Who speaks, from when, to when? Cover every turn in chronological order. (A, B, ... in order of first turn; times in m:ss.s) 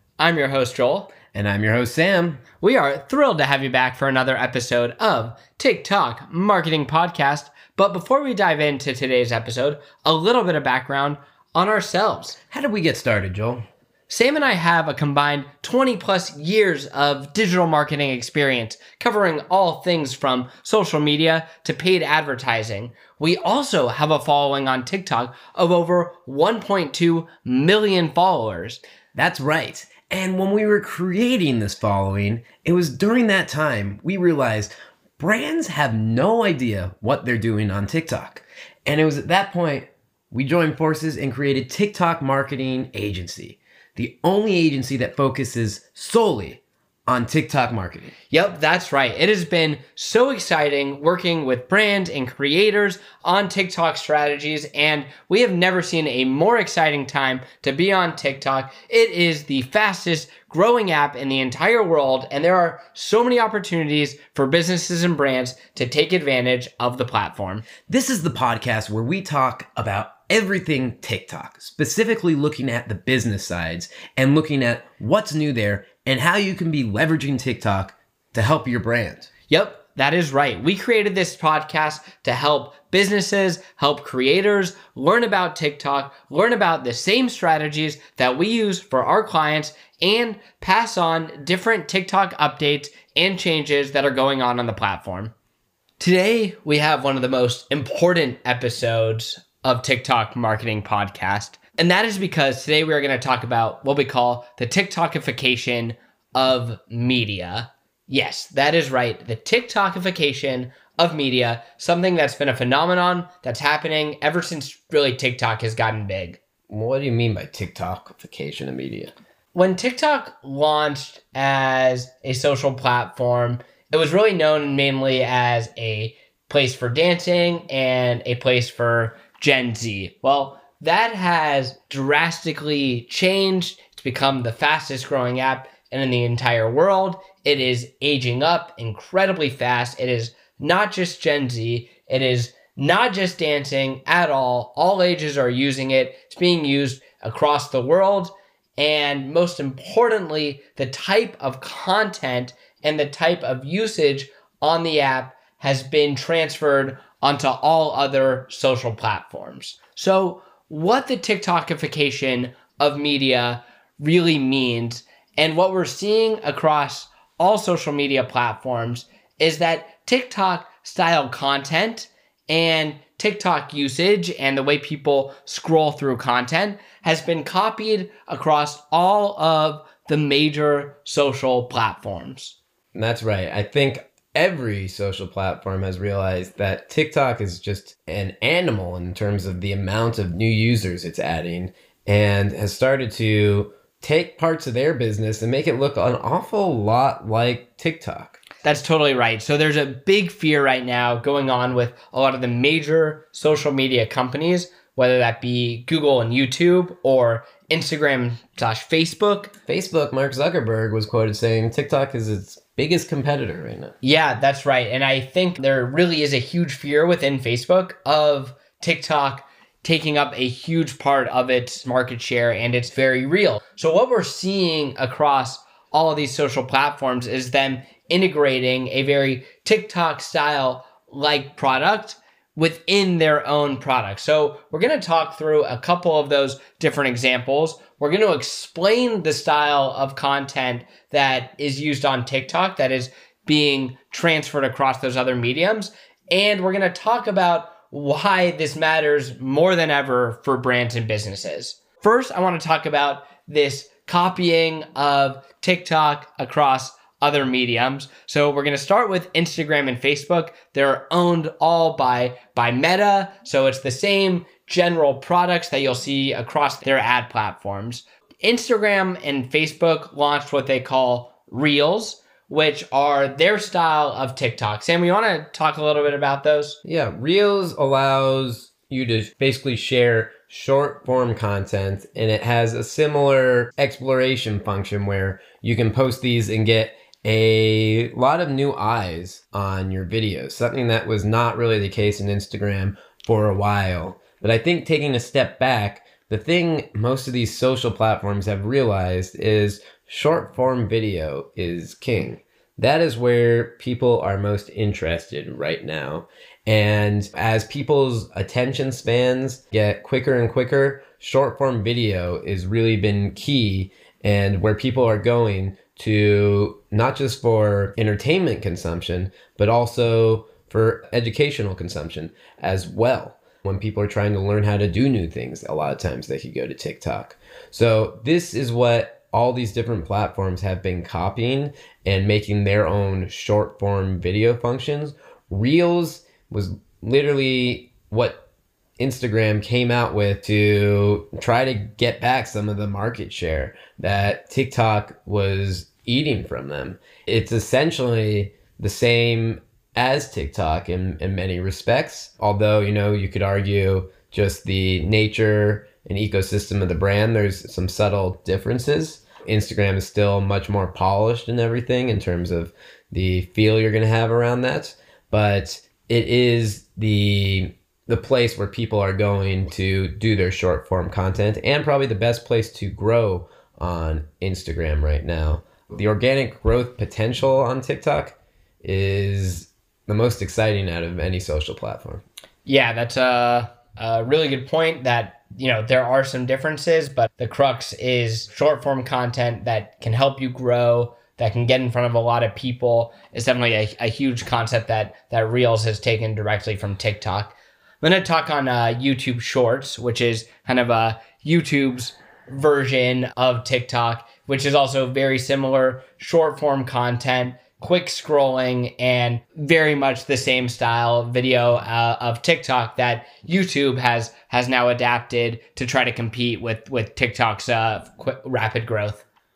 0:00.2-0:01.1 A
0:01.3-0:02.4 B
0:02.6-0:12.4 A
0:12.5-0:13.6 B
0:14.1-0:28.8 A
0:29.1-0:48.1 B
0:48.3-1:07.6 A
1:07.9-1:19.3 B
1:19.5-1:35.3 A
1:36.0-1:56.4 A
1:56.7-1:59.1 B
1:59.5-3:02.6 A
3:02.9-3:18.4 B
3:18.6-3:29.5 A
3:29.7-3:33.9 B
3:34.0-4:36.8 A
4:36.8-5:38.4 B
5:39.0-6:22.2 B
6:22.6-6:59.2 A